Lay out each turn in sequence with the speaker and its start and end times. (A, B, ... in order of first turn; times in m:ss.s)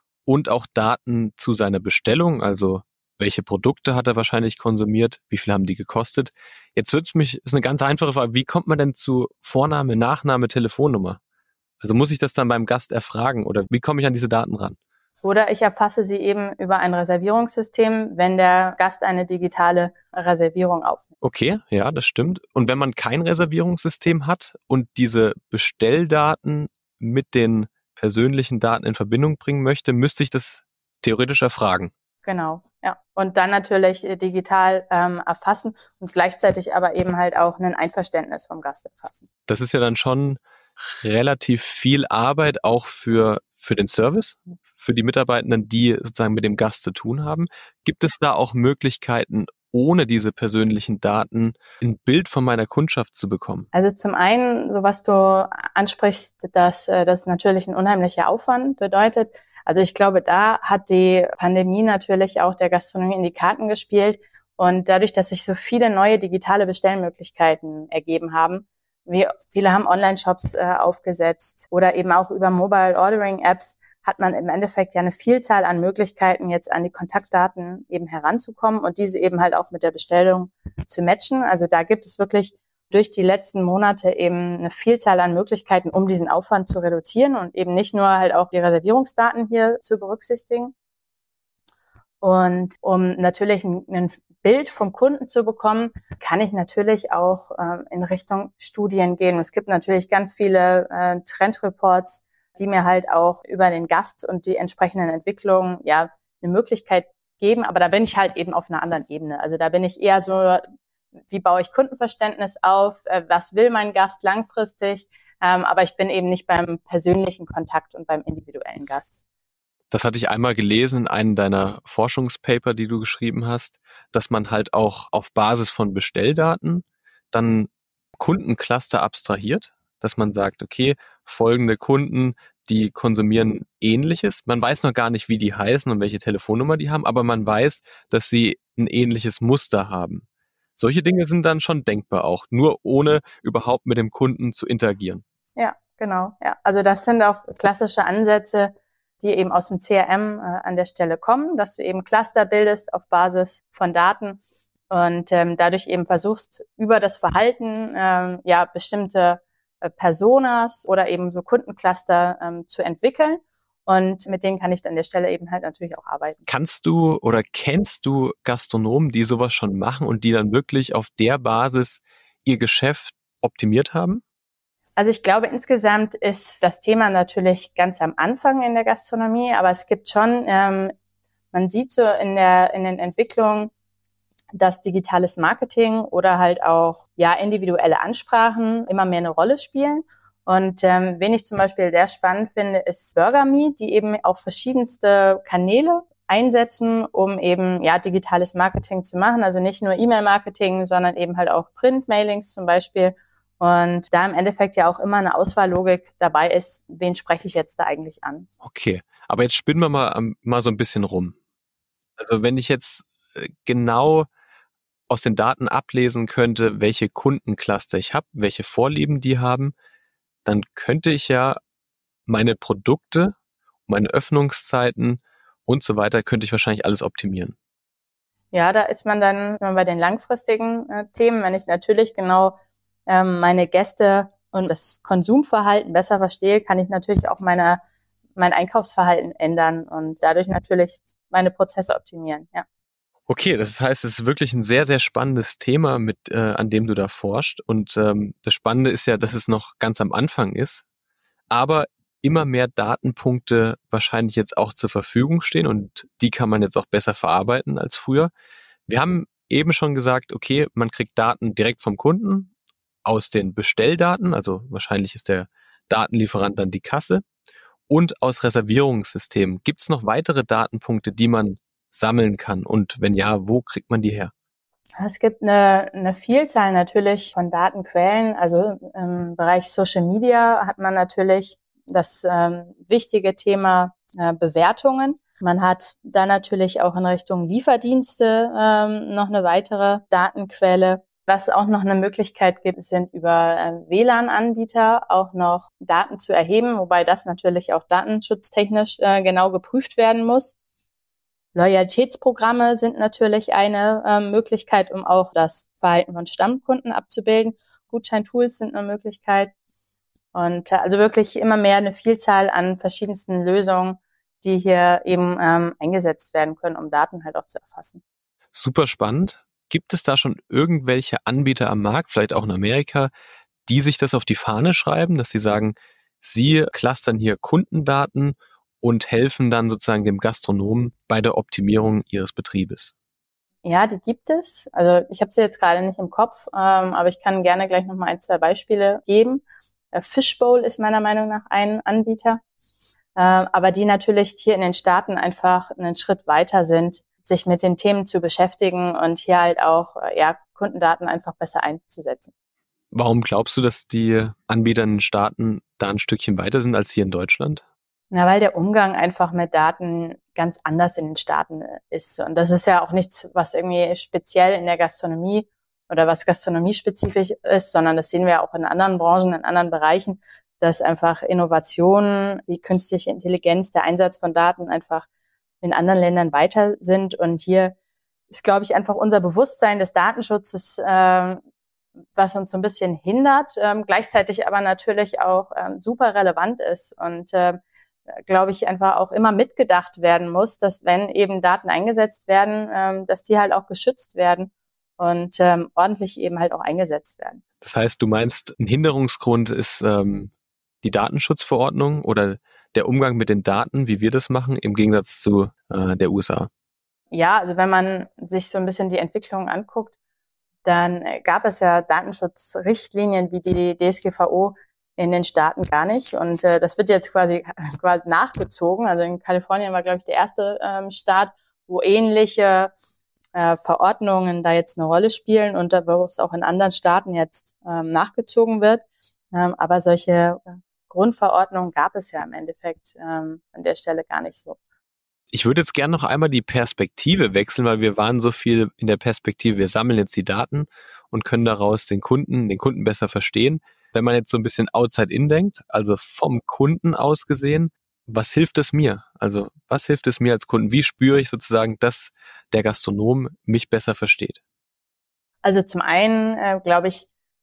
0:00.3-0:11.2 A
0:11.8-0:14.8 A
0:15.2-0:21.1 B
0:21.2-0:31.9 A
0:32.2-0:39.2 B
0:39.5-0:53.7 A
0:53.7-1:30.7 B
1:32.2-1:50.6 B
1:51.3-1:59.1 B
1:59.9-2:20.2 A
2:20.8-2:25.2 A
2:25.6-2:46.5 B
2:46.5-2:54.2 A
2:55.0-3:00.9 B
3:01.5-3:03.7 B
3:04.6-3:28.5 B
3:28.6-3:31.4 A
3:32.2-3:34.3 A
3:35.1-3:39.7 A
3:40.4-3:41.6 A
3:42.3-3:43.4 A
3:43.9-3:47.6 A
3:48.5-3:57.8 B
3:58.4-4:02.6 B
4:03.3-4:10.8 A
4:11.5-4:18.3 A
4:18.9-4:22.5 A
4:23.0-4:27.2 A
4:27.9-4:34.3 A
4:35.0-5:00.5 B
5:01.6-5:09.5 B
5:10.3-5:18.0 B
5:18.5-5:23.1 A
5:23.7-5:32.9 A
5:33.6-5:42.4 B
5:43.2-5:52.3 B
5:52.9-5:57.6 A
5:58.1-6:15.1 B
6:15.6-6:17.8 B
6:18.3-6:21.4 B
6:22.2-6:27.6 B
6:28.3-6:37.4 B
6:37.6-6:46.5 A
6:47.1-6:49.9 B
6:50.6-7:02.7 B
7:03.3-7:14.6 B
7:15.3-7:34.4 A
7:35.4-7:37.1 B